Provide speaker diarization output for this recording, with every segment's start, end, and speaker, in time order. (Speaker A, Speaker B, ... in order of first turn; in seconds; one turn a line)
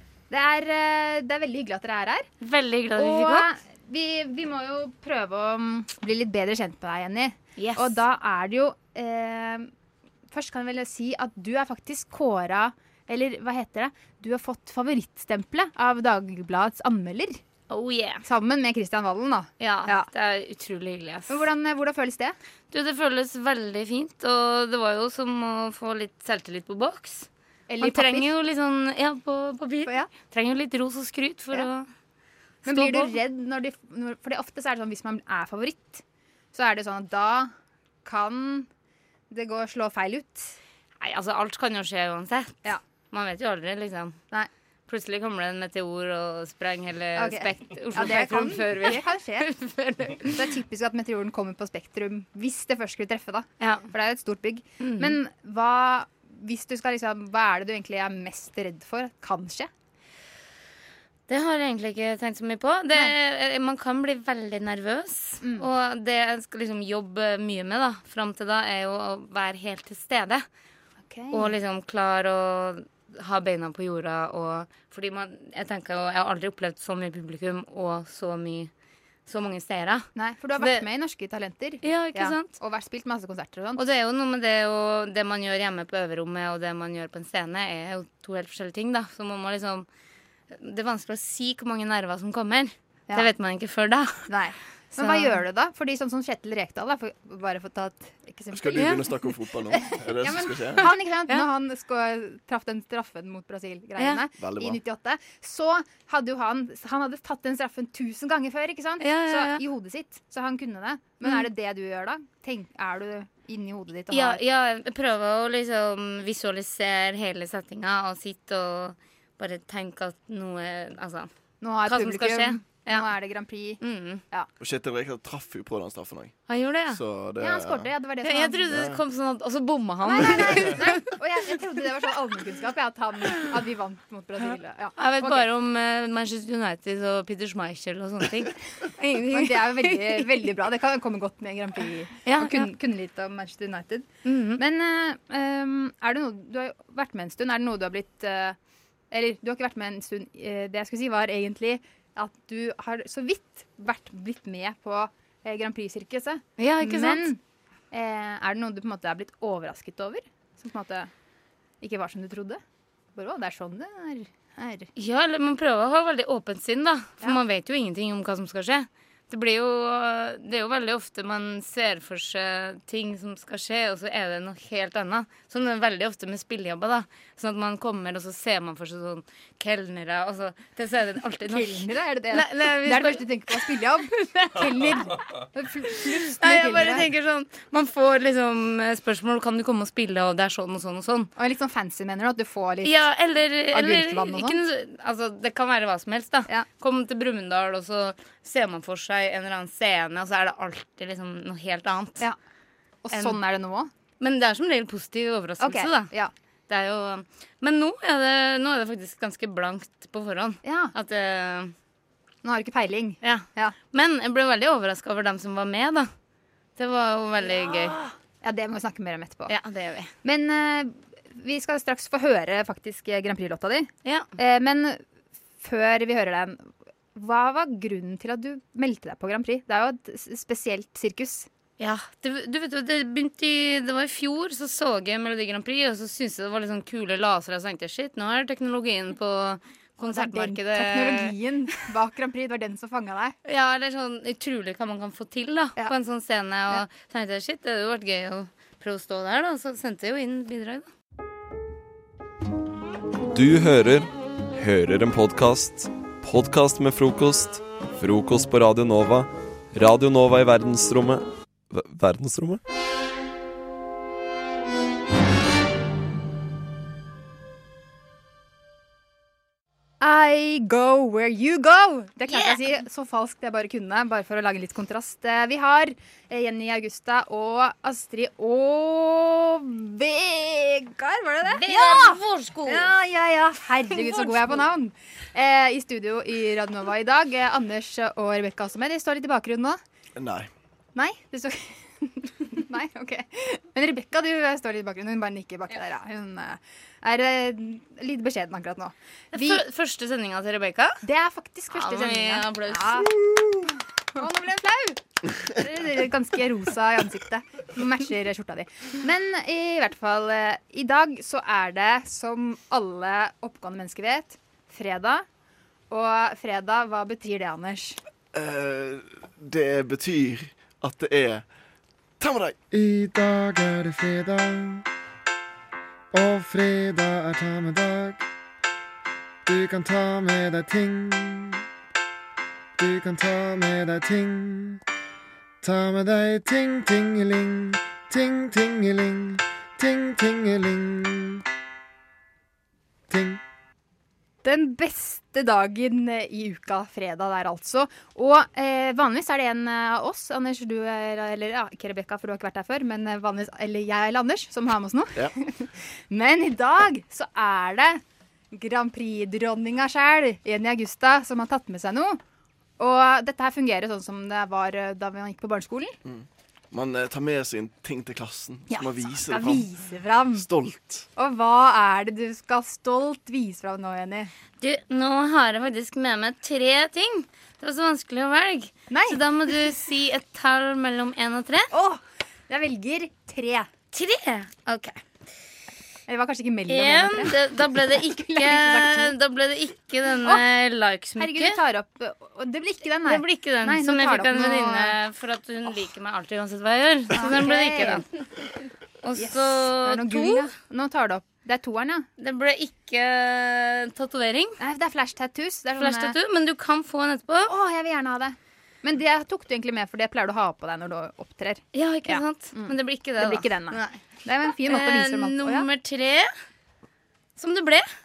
Speaker A: 0.3-2.3
Speaker B: 2.4-3.5
Speaker A: 2.9-9.7
Speaker B: 7.6-8.0
Speaker A: 10.3-17.4
Speaker B: 17.7-18.2
Speaker A: 18.2-20.1
Speaker B: 19.6-21.5
Speaker A: 21.3-22.4
Speaker B: 22.7-27.3
Speaker A: 27.7-28.3
Speaker B: 27.8-31.9
Speaker A: 29.8-30.1
Speaker A: 32.6-37.5
Speaker B: 32.6-33.1
Speaker A: 38.0-38.7
Speaker A: 39.3-40.6
Speaker B: 41.0-44.2
Speaker B: 44.9-50.5
Speaker A: 47.1-49.5
Speaker A: 50.3-59.7
Speaker B: 53.6-53.9
Speaker B: 54.8-55.2
Speaker B: 61.3-70.5
Speaker A: 65.4-65.7
Speaker A: 71.0-71.5
Speaker B: 71.3-78.7
Speaker B: 79.3-80.9
Speaker A: 80.1-83.8
Speaker B: 81.8-82.6
Speaker B: 83.8-89.9
Speaker B: 90.5-94.3
Speaker A: 94.3-114.4
Speaker B: 95.0-95.4
Speaker C: 98.5-100.8
Speaker B: 104.0-104.2
Speaker C: 104.3-104.8
Speaker B: 109.0-109.6
Speaker B: 114.1-121.3
Speaker A: 121.6-123.8
Speaker B: 121.8-123.1
Speaker B: 123.8-124.2
Speaker C: 124.6-126.3
Speaker B: 126.5-127.0
Speaker C: 126.9-127.9
Speaker A: 127.4-128.9
Speaker B: 128.2-131.1
Speaker C: 128.7-129.0
Speaker A: 130.0-135.5
Speaker B: 134.9-140.4
Speaker A: 139.3-148.6
Speaker B: 142.2-142.7
Speaker B: 144.2-144.6
Speaker A: 149.1-157.4
Speaker B: 156.6-157.3
Speaker A: 157.9-161.1
Speaker A: 161.8-162.6
Speaker A: 163.1-164.9
Speaker B: 164.9-183.7
Speaker A: 181.5-187.1
Speaker B: 185.9-191.3
Speaker A: 191.4-193.1
Speaker B: 192.8-202.3
Speaker A: 193.7-194.6
Speaker A: 203.0-203.9
Speaker B: 203.1-203.4
Speaker B: 204.2-206.1
Speaker A: 205.6-206.3
Speaker B: 206.7-211.7
Speaker A: 210.6-210.9
Speaker A: 212.4-213.8
Speaker B: 213.2-216.1
Speaker B: 216.8-218.0
Speaker A: 217.4-219.5
Speaker B: 219.5-220.1
Speaker A: 220.2-225.0
Speaker B: 224.0-224.3
Speaker A: 225.6-231.5
Speaker B: 231.8-241.3
Speaker A: 240.0-243.3
Speaker B: 243.4-250.9
Speaker D: 253.3-262.6
Speaker A: 270.0-289.8
Speaker B: 272.3-272.6
Speaker B: 281.4-282.9
Speaker B: 283.9-284.6
Speaker C: 290.1-290.5
Speaker A: 290.9-299.6
Speaker B: 299.3-301.0
Speaker A: 301.0-315.2
Speaker B: 301.7-303.2
Speaker A: 315.9-318.0
Speaker C: 318.3-321.4
Speaker C: 322.2-322.6
Speaker E: 322.7-324.8
Speaker E: 326.1-328.2
Speaker E: 329.5-331.6
Speaker E: 332.8-334.8
Speaker E: 335.6-341.4
Speaker E: 343.1-343.4
Speaker A: 344.4-362.2
Speaker A: 362.8-365.9
Speaker C: 366.1-369.7
Speaker A: 368.7-370.4
Speaker C: 370.4-371.1
Speaker A: 371.1-374.3
Speaker B: 374.6-381.7
Speaker A: 378.9-379.8
Speaker A: 381.7-383.7
Speaker B: 383.9-385.0
Speaker A: 386.1-389.1
Speaker B: 386.7-391.6
Speaker A: 391.2-395.0
Speaker B: 393.0-398.1
Speaker A: 397.1-398.1
Speaker B: 399.0-400.6
Speaker A: 399.2-402.1
Speaker B: 402.2-404.6
Speaker A: 404.6-406.1
Speaker B: 405.7-407.5
Speaker A: 407.4-415.7
Speaker B: 411.7-414.0
Speaker B: 414.6-416.3
Speaker B: 417.4-417.9